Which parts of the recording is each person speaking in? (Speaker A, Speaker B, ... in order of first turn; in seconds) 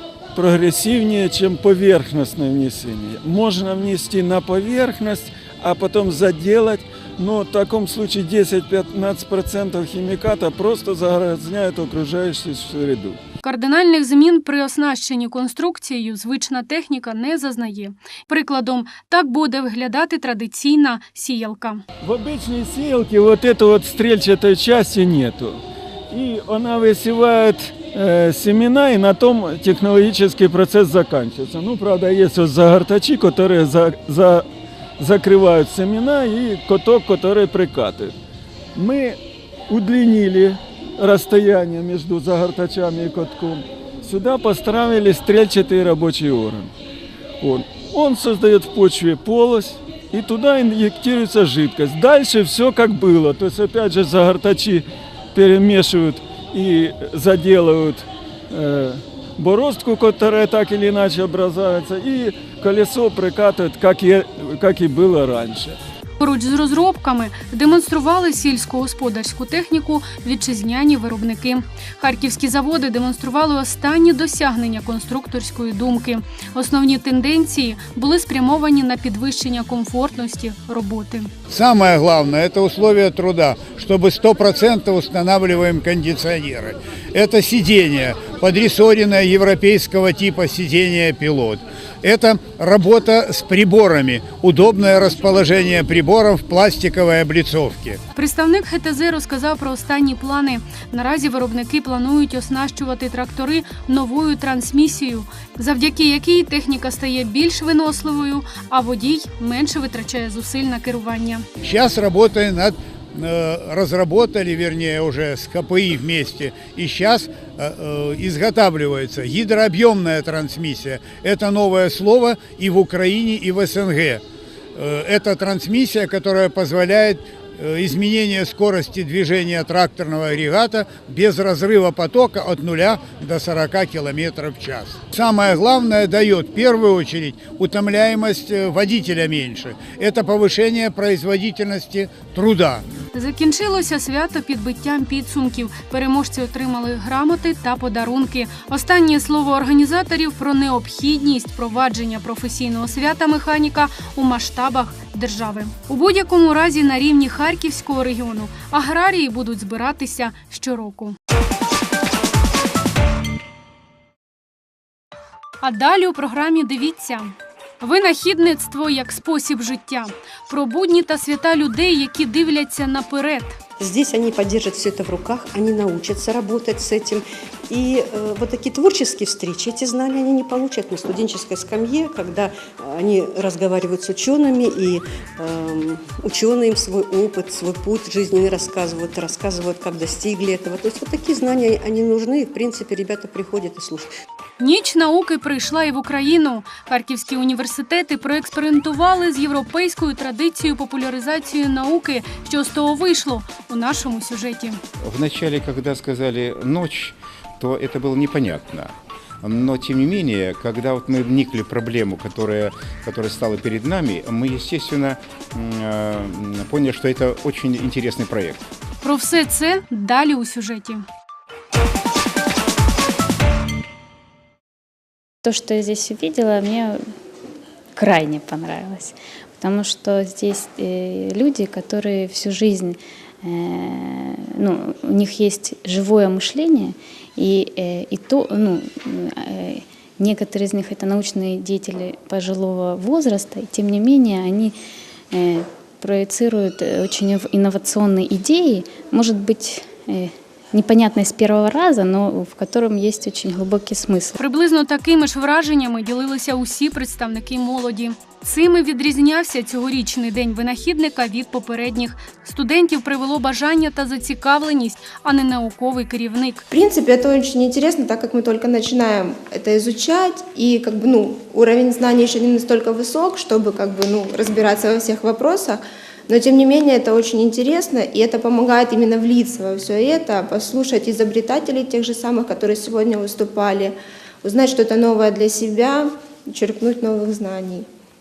Speaker A: 0.3-13.2, 22.0-34.5, 35.0-38.1, 38.8-39.2, 39.7-46.7, 47.4-65.8
Speaker B: 13.4-21.8, 66.2-81.3, 98.2-111.5, 143.1-161.2, 165.6-173.6, 194.6-204.8, 219.0-221.1, 254.4-266.6
Speaker C: 81.5-98.0, 111.6-124.2, 124.8-142.8
Speaker D: 173.8-194.1
Speaker E: 205.0-218.7
Speaker F: 225.4-227.1, 228.0-244.8, 245.3-254.4
Speaker G: 266.7-287.9